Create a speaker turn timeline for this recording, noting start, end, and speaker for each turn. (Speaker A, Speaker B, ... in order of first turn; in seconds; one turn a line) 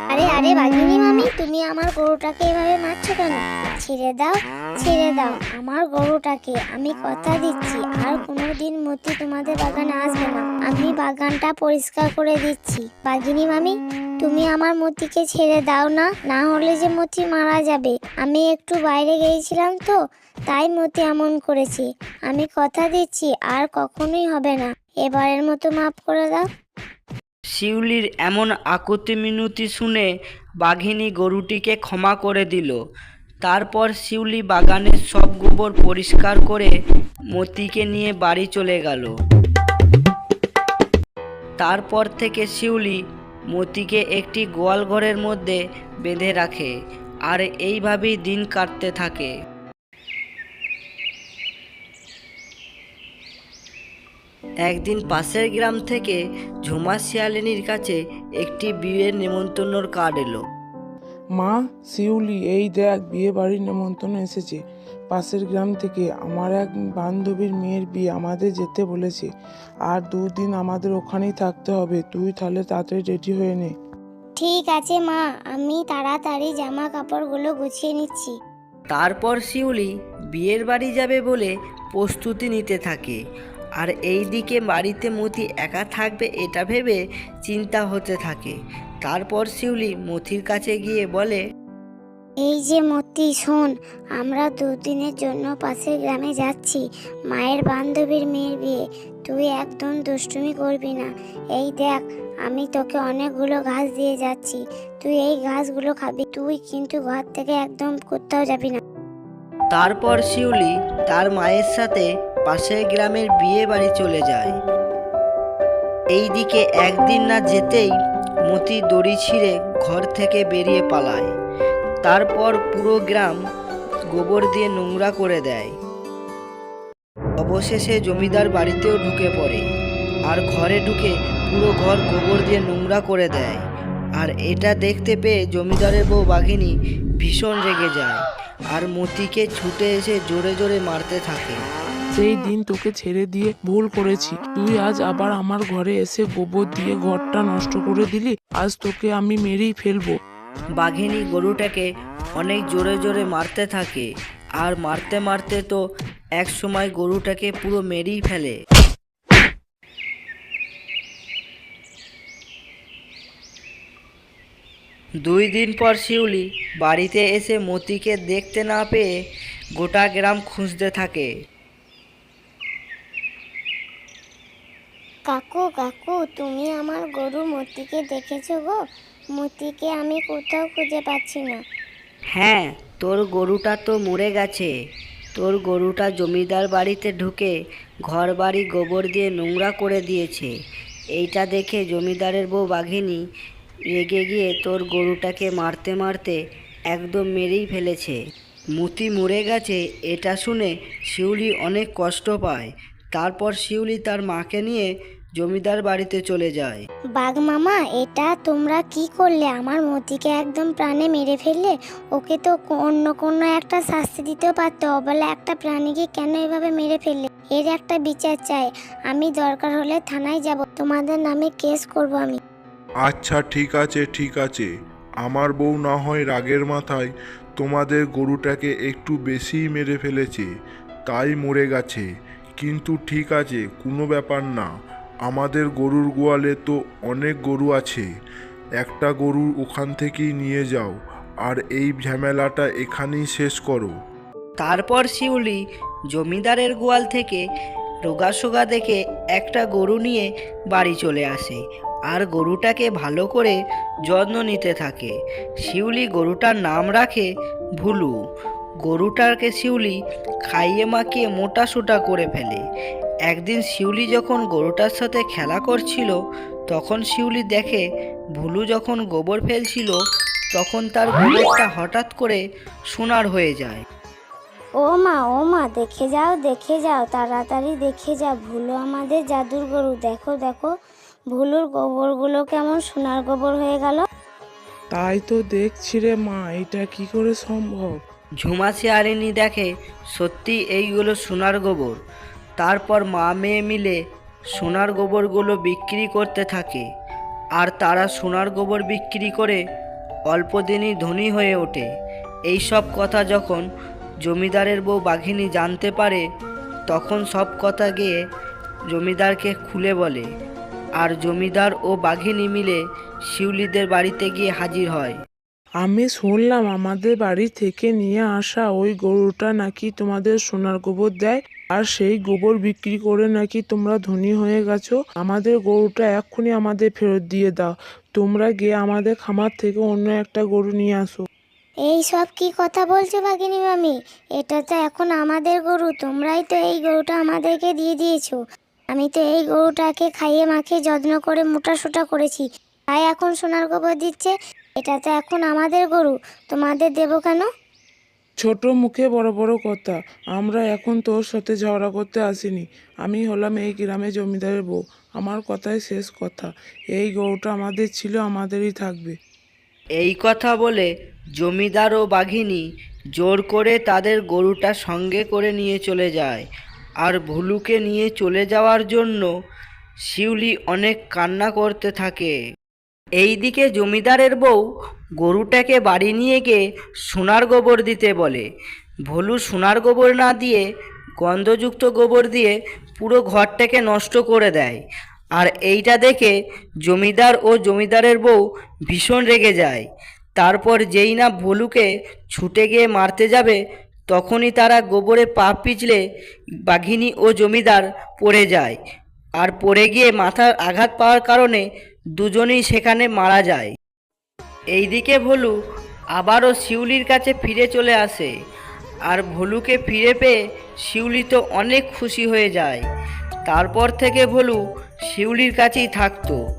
Speaker A: 0.1-19.9
Speaker A: 20.5-26.5
Speaker B: 27.5-30.1
Speaker B: 30.6-32.8
Speaker B: 33.4-36.7
Speaker B: 37.3-39.1
Speaker B: 41.6-46.7
Speaker B: 47.3-49.3
Speaker B: 54.6-60.4
Speaker C: 61.3-69.3
Speaker C: 69.9-73.7
Speaker A: 74.4-78.3
Speaker B: 78.9-83.2
Speaker B: 83.8-91.4
Speaker A: 92.4-108.8
Speaker B: 109.7-114.5
Speaker B: 116.1-117.9
Speaker B: 118.5-121.3
Speaker B: 122.0-123.4
Speaker B: 124.1-125.7
Speaker B: 127.4-129.6
Speaker B: 130.3-133.6
Speaker B: 134.2-141.6
Speaker C: 142.1-150.2
Speaker B: 150.8-154.1
Speaker B: 154.6-155.8
Speaker B: 156.4-158.6
Speaker B: 165.2-169.1
Speaker B: 169.8-171.3
Speaker A: 175.3-178.8
Speaker A: 179.3-181.6
Speaker B: 182.3-184.7
Speaker B: 185.3-187.5
Speaker B: 188.1-190.5
Speaker B: 191.1-193.2
Speaker B: 193.9-196.4
Speaker B: 196.9-198.2
Speaker B: 198.8-206.8
Speaker A: 207.2-222.4
Speaker D: 223.0-224.7
Speaker D: 225.2-230.5
Speaker D: 231.1-232.1
Speaker D: 232.6-234.7
Speaker D: 235.2-238.1
Speaker D: 238.8-243.9
Speaker B: 244.6-245.6
Speaker B: 246.1-247.4
Speaker B: 248.0-255.1
Speaker B: 255.6-257.3
Speaker B: 257.8-258.1
Speaker B: 258.8-260.0
Speaker B: 260.5-262.6
Speaker B: 263.3-266.2
Speaker B: 266.7-267.8
Speaker B: 268.4-270.0
Speaker B: 270.5-273.8
Speaker A: 274.8-280.7
Speaker A: 281.3-284.0
Speaker C: 284.9-288.0
Speaker B: 288.4-292.0
Speaker B: 292.6-294.0
Speaker B: 294.5-296.9
Speaker B: 297.6-299.6
Speaker B: 300.3-301.9
Speaker B: 302.5-303.6
Speaker B: 304.2-306.2
Speaker B: 306.9-308.2
Speaker B: 308.9-310.2
Speaker B: 311.0-315.1
Speaker C: 315.8-331.3
Speaker A: 331.9-338.4
Speaker A: 338.9-347.4
Speaker C: 348.4-359.2
Speaker B: 360.0-362.6
Speaker B: 363.1-366.4
Speaker B: 367.0-369.3
Speaker B: 370.1-372.3
Speaker B: 373.2-374.6
Speaker B: 375.2-378.4
Speaker B: 379.1-380.6
Speaker B: 381.2-384.8
Speaker B: 385.4-386.3
Speaker B: 386.8-389.8
Speaker B: 390.4-393.6
Speaker B: 394.1-396.0
Speaker B: 396.7-398.8
Speaker B: 399.4-401.6
Speaker B: 402.2-403.7
Speaker B: 404.7-405.5
Speaker B: 406.1-408.3
Speaker B: 409.1-412.8
Speaker B: 413.4-416.4